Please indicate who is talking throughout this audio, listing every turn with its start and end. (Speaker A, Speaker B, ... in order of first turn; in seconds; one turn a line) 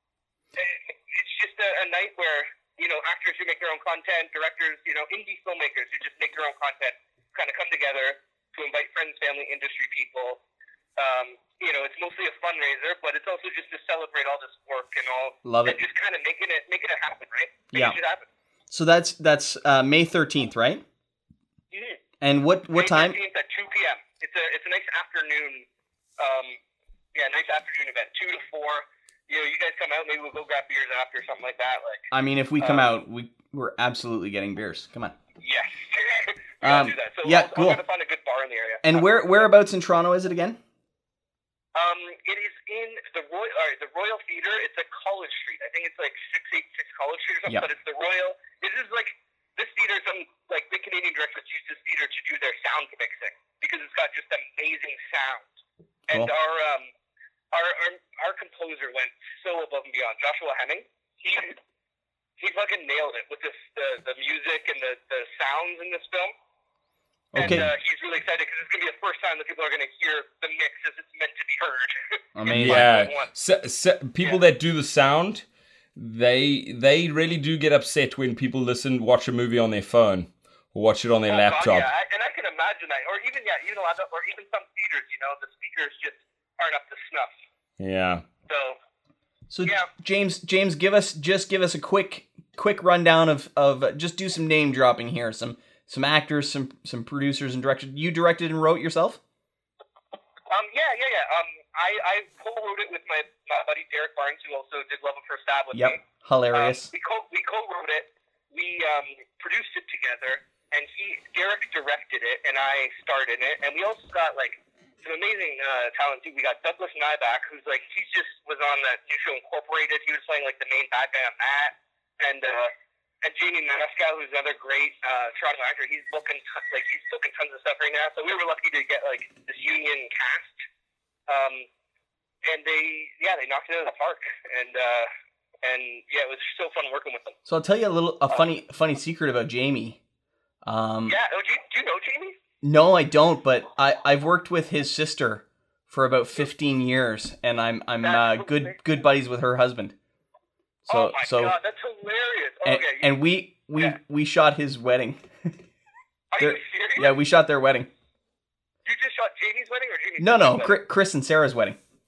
Speaker A: 0.6-10.4
Speaker A: 11.0-18.2
Speaker B: 15.4-15.8
Speaker B: 17.7-18.0
Speaker B: 18.7-20.8
Speaker A: 21.7-22.0
Speaker B: 22.2-23.2
Speaker A: 22.7-25.7
Speaker A: 26.2-26.6
Speaker A: 27.1-32.1
Speaker B: 32.1-35.1
Speaker A: 32.6-32.9
Speaker A: 35.4-39.5
Speaker B: 36.6-37.8
Speaker B: 38.8-40.6
Speaker A: 41.7-55.5
Speaker A: 56.1-56.9
Speaker A: 57.5-61.6
Speaker A: 62.4-66.3
Speaker B: 67.3-67.7
Speaker A: 67.3-73.3
Speaker B: 72.3-72.9
Speaker C: 72.5-75.4
Speaker C: 76.0-81.9
Speaker A: 81.3-87.3
Speaker C: 87.8-88.2
Speaker A: 88.5-88.8
Speaker B: 89.5-99.2
Speaker A: 100.5-106.0
Speaker B: 105.7-106.9
Speaker A: 106.5-122.7
Speaker A: 123.2-130.6
Speaker A: 131.3-131.7
Speaker A: 132.4-135.1
Speaker A: 135.6-137.3
Speaker B: 137.4-140.0
Speaker B: 140.6-141.2
Speaker A: 141.1-142.4
Speaker B: 142.6-149.9
Speaker A: 148.0-148.7
Speaker B: 150.9-151.5
Speaker A: 150.9-153.2
Speaker B: 152.6-155.5
Speaker A: 156.3-157.2
Speaker B: 156.4-157.9
Speaker A: 158.8-160.8
Speaker B: 160.2-161.8